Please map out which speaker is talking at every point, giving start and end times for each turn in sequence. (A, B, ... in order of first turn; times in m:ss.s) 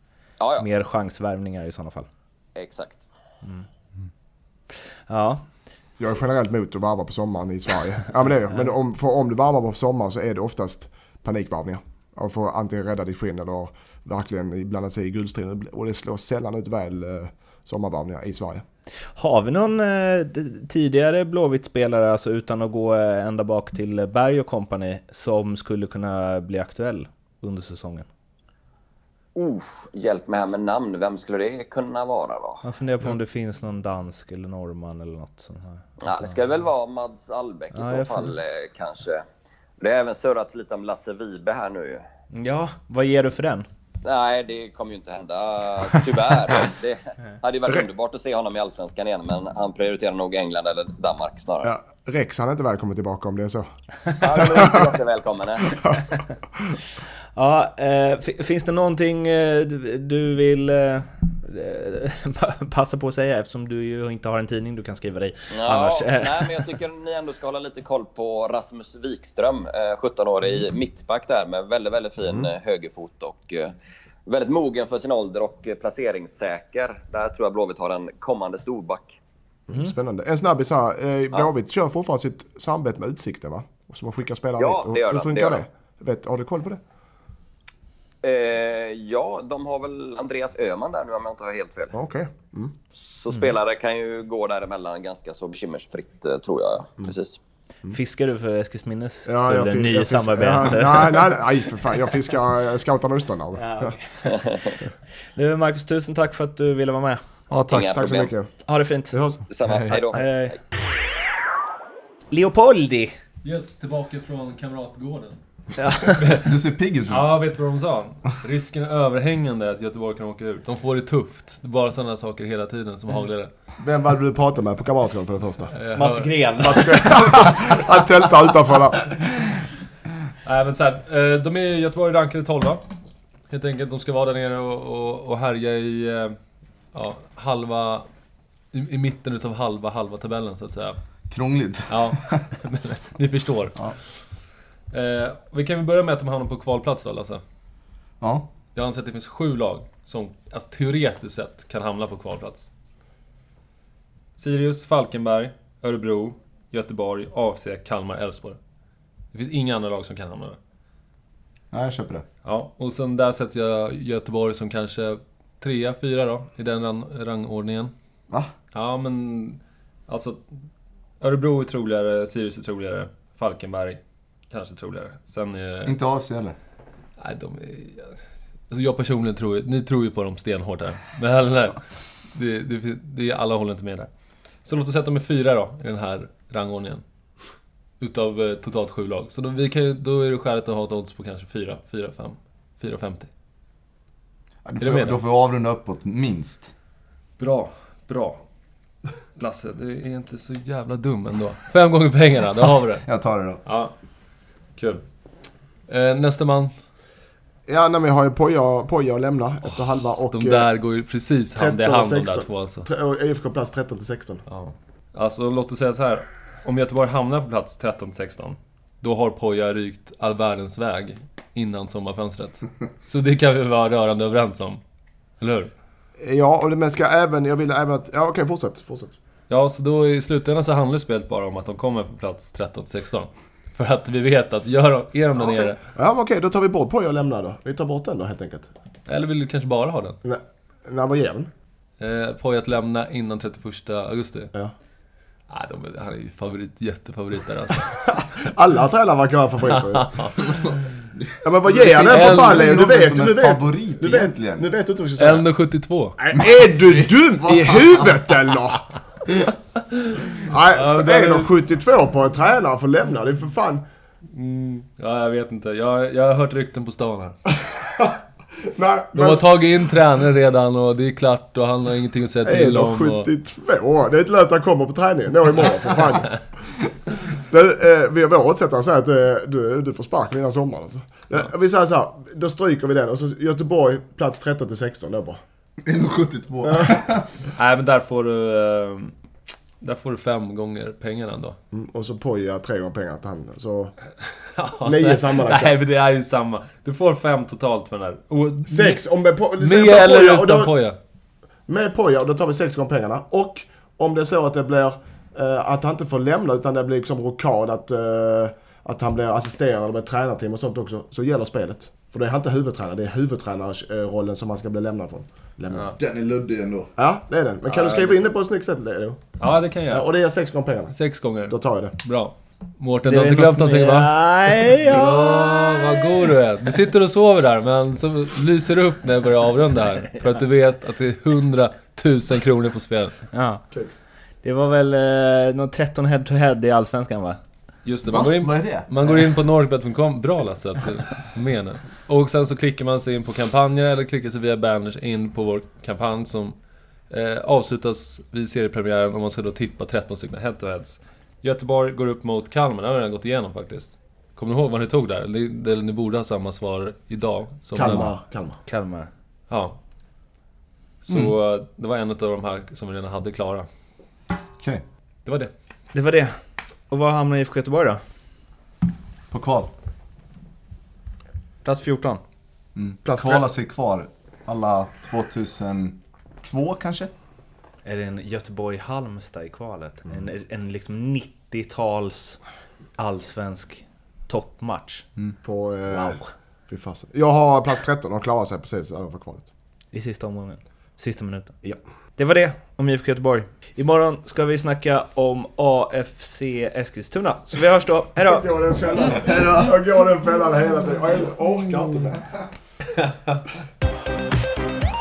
0:00.4-0:00.7 A
0:00.6-0:02.1 B
0:02.6-0:03.1 A
0:05.1-0:05.4 B
0:06.0-0:18.6 C
0:19.2-0:28.1 B
0:29.4-0:32.6 A
0:32.6-0:36.4 B
0:36.0-0:39.2 A
0:37.7-0:38.3 B
0:39.8-0:42.0 A
0:42.3-0:43.7 B
0:44.0-0:51.7 A
0:51.6-0:53.7 C
0:54.2-0:55.7 A
0:54.2-0:54.9 C
0:55.7-0:56.8 C
0:57.4-1:06.7 B
1:05.5-1:13.7 A
1:14.3-1:19.2 A
1:19.7-1:26.8 C
1:24.6-1:25.6 A
1:28.2-1:32.0 A
1:31.9-1:32.7 C
1:33.0-1:37.4 A
1:37.9-1:41.3 B
1:39.3-1:44.0 C
1:43.5-1:44.5 B
1:45.3-1:48.0 B
1:47.7-1:48.3 A
1:47.7-1:48.5 C
1:48.6-1:50.6 B
1:49.1-1:49.4 C
1:49.5-1:50.4 A
1:52.3-1:53.1 B
1:53.4-1:55.4 D
1:55.8-1:56.2 B
1:56.2-1:56.6 D
1:56.4-1:57.3 E
1:57.1-2:03.5 D
2:03.8-2:05.7 C
2:05.7-2:06.4 D
2:05.9-2:07.7 B
2:06.6-2:09.1 C
2:10.4-2:12.8 D
2:13.5-2:16.4 D
2:16.9-2:18.1 D
2:18.7-2:21.0 D
2:21.3-2:22.4 E
2:21.9-2:24.0 D
2:24.9-2:27.4 D
2:28.2-2:28.5 E
2:28.8-2:32.7 D
2:34.4-2:38.6 D
2:39.3-2:40.6 D
2:41.7-2:42.2 E
2:42.4-2:47.9 D
2:48.7-2:50.4 D
2:51.2-2:56.0 D
2:55.8-2:56.6 E
2:57.2-3:04.1 D
3:04.6-3:07.0 D
3:08.0-3:13.3 D
3:14.6-3:16.7 E
3:14.8-3:15.2 D
3:17.4-3:18.4 D
3:19.4-3:23.1 D
3:23.0-3:23.6 E
3:23.6-3:24.0 D
3:24.8-3:25.1 D
3:25.9-3:26.7 D
3:27.7-3:30.7 C
3:30.3-3:32.9 D
3:31.6-3:34.4 C
3:34.5-3:44.8 D
3:45.4-3:45.7 D
3:46.2-3:49.2 C
3:49.5-3:55.8 D
3:55.4-3:58.7 C
3:59.1-4:00.2 D
4:00.2-4:01.5 C
4:02.0-4:04.5 D
4:05.5-4:08.2 D
4:08.2-4:10.2 C
4:09.8-4:10.6 D
4:10.6-4:14.7 E
4:11.4-4:15.5 C
4:12.1-4:12.8 D
4:15.2-4:16.2 D
4:16.2-4:18.9 C
4:16.9-4:18.1 E
4:19.9-4:21.5 D
4:20.4-4:23.8 C
4:24.3-4:27.4 D
4:27.7-4:28.2 C
4:28.7-4:29.6 C
4:29.1-4:33.3 D
4:32.4-4:36.5 C
4:37.3-4:45.4 C
4:45.8-4:47.4 E
4:46.6-4:47.0 C
4:47.6-4:49.1 D
4:49.8-4:51.6 D
4:51.7-4:53.9 C
4:54.5-4:59.0 D
4:54.8-4:55.8 C
4:58.7-5:00.7 C
4:59.6-5:01.0 D
5:01.7-5:15.9 C
5:15.8-5:16.9 E
5:17.0-5:19.4 C
5:17.7-5:18.3 D
5:19.4-5:20.1 D
5:19.9-5:22.0 C
5:20.9-5:33.2 D
5:23.1-5:25.8 B
5:33.3-5:33.7 B
5:33.7-5:34.0 C
5:34.4-5:37.4 B
5:37.8-5:58.1 D
5:38.1-5:38.9 E
5:57.7-5:58.6 C
5:57.8-5:58.1 E
5:58.7-5:59.1 B
5:59.5-5:59.8 D
6:01.0-6:03.7 D
6:01.1-6:01.3 E
6:04.6-6:04.8 E
6:05.2-6:05.5 D
6:05.9-6:06.4 B
6:06.9-6:08.0 B
6:09.3-6:09.7 E
6:11.6-6:12.2 B
6:12.8-6:17.1 E
6:13.0-6:13.5 C
6:17.8-6:22.4 B
6:23.0-6:25.1 B
6:25.4-6:29.5 C
6:25.9-6:26.3 B
6:29.9-6:31.6 B
6:32.2-6:38.5 B
6:38.3-6:42.5 C
6:39.3-6:39.7 E